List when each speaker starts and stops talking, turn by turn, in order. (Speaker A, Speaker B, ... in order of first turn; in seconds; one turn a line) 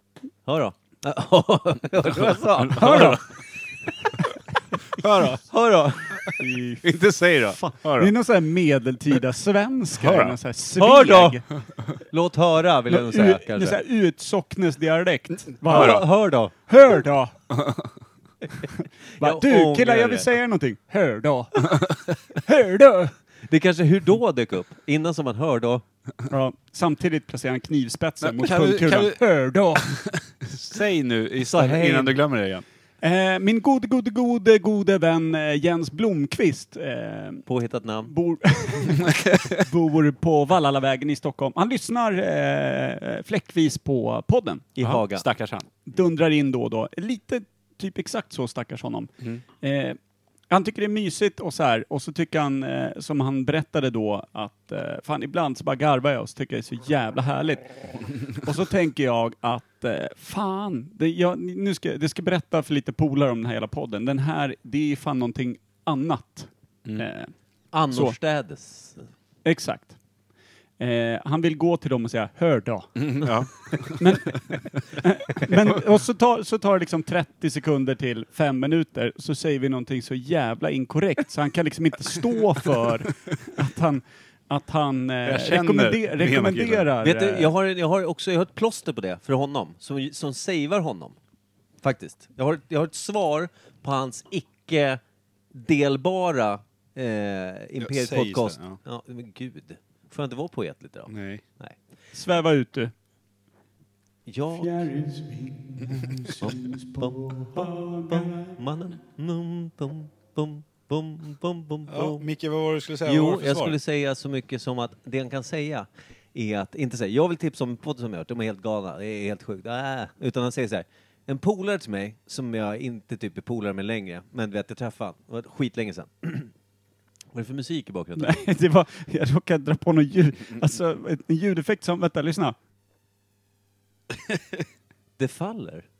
Speaker A: 0.5-3.2
Speaker B: 2.6-3.2
Speaker C: 2.7-3.2
Speaker B: 5.0-5.4
Speaker A: 5.4-6.2
Speaker C: 6.4-6.8
Speaker B: 7.0-8.1
Speaker C: 7.5-11.4
Speaker B: 10.0-10.4
Speaker A: 10.7-11.4
Speaker A: 12.1-13.8
Speaker C: 12.9-16.1
Speaker A: 15.6-16.5
Speaker B: 15.7-16.0
Speaker C: 16.6-17.4
Speaker A: 19.2-20.3
Speaker C: 19.2-23.1
Speaker A: 23.4-25.8
Speaker C: 26.3-29.9
Speaker B: 28.2-29.2
Speaker B: 29.8-32.6
Speaker A: 31.4-32.1
Speaker C: 33.0-37.4
Speaker A: 37.5-38.1
Speaker C: 38.0-44.6
Speaker A: 44.8-45.2
Speaker B: 44.8-45.7
Speaker C: 45.9-50.0
Speaker C: 50.5-67.3
Speaker A: 67.7-69.1
Speaker C: 67.9-68.2
Speaker C: 69.4-70.0
Speaker C: 70.8-73.3
Speaker B: 73.0-74.4
Speaker C: 74.0-87.5
Speaker B: 85.2-86.9
Speaker A: 87.0-91.2
Speaker A: 91.8-95.0
Speaker A: 95.5-101.8
Speaker B: 97.8-98.8
Speaker B: 101.1-101.4
Speaker C: 102.1-102.9
Speaker A: 104.2-104.7
Speaker C: 104.6-108.5
Speaker A: 106.4-112.2
Speaker B: 111.9-113.8
Speaker A: 113.0-126.5
Speaker A: 127.3-128.4
Speaker C: 128.2-132.6
Speaker A: 135.2-135.8